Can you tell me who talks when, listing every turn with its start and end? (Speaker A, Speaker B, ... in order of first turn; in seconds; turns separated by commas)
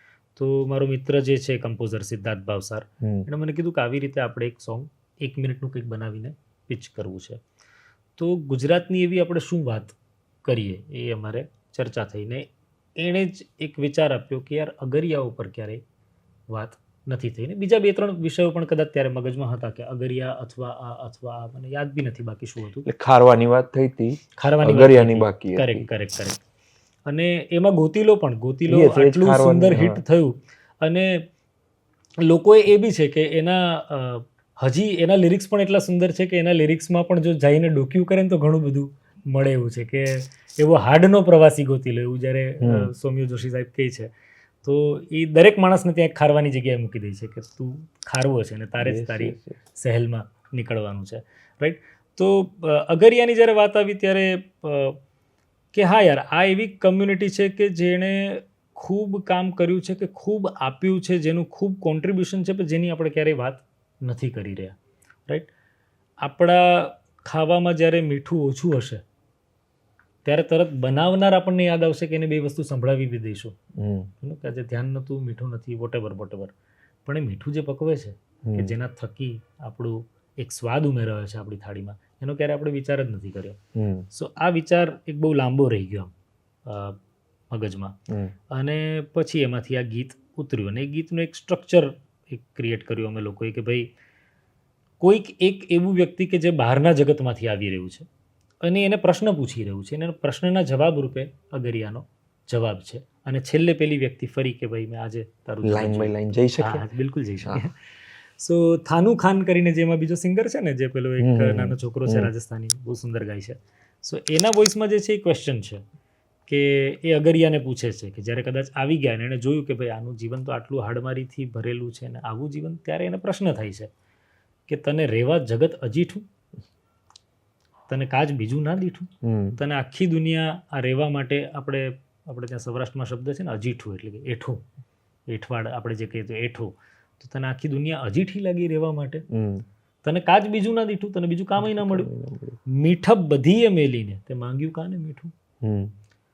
Speaker A: 0.3-7.4, Speaker B: 3.0-3.3, Speaker A: 8.2-15.8, Speaker A: 16.5-22.9, Speaker B: 22.8-25.9, Speaker A: 24.4-26.4, Speaker A: 27.1-31.2, Speaker B: 28.7-30.0, Speaker A: 32.2-44.1, Speaker B: 42.6-42.9, Speaker A: 44.6-55.0, Speaker B: 48.8-49.6, Speaker A: 55.7-64.8, Speaker A: 66.2-69.0, Speaker A: 70.2-73.5, Speaker B: 73.8-74.1, Speaker A: 74.2-76.5, Speaker A: 77.0-83.6, Speaker B: 78.4-78.7, Speaker B: 83.8-84.1, Speaker A: 84.1-86.1, Speaker A: 86.7-87.0, Speaker A: 87.5-88.0, Speaker B: 88.1-88.3, Speaker A: 88.5-93.9, Speaker A: 95.0-98.1, Speaker A: 98.6-107.8, Speaker B: 105.6-106.8, Speaker A: 108.4-115.8, Speaker B: 111.2-112.3, Speaker A: 116.5-123.9, Speaker A: 124.7-126.2, Speaker A: 127.9-134.6, Speaker B: 129.2-129.6, Speaker A: 135.3-139.2, Speaker B: 139.3-139.6, Speaker A: 140.0-142.1, Speaker B: 141.6-142.6, Speaker A: 142.7-145.3, Speaker B: 145.6-145.9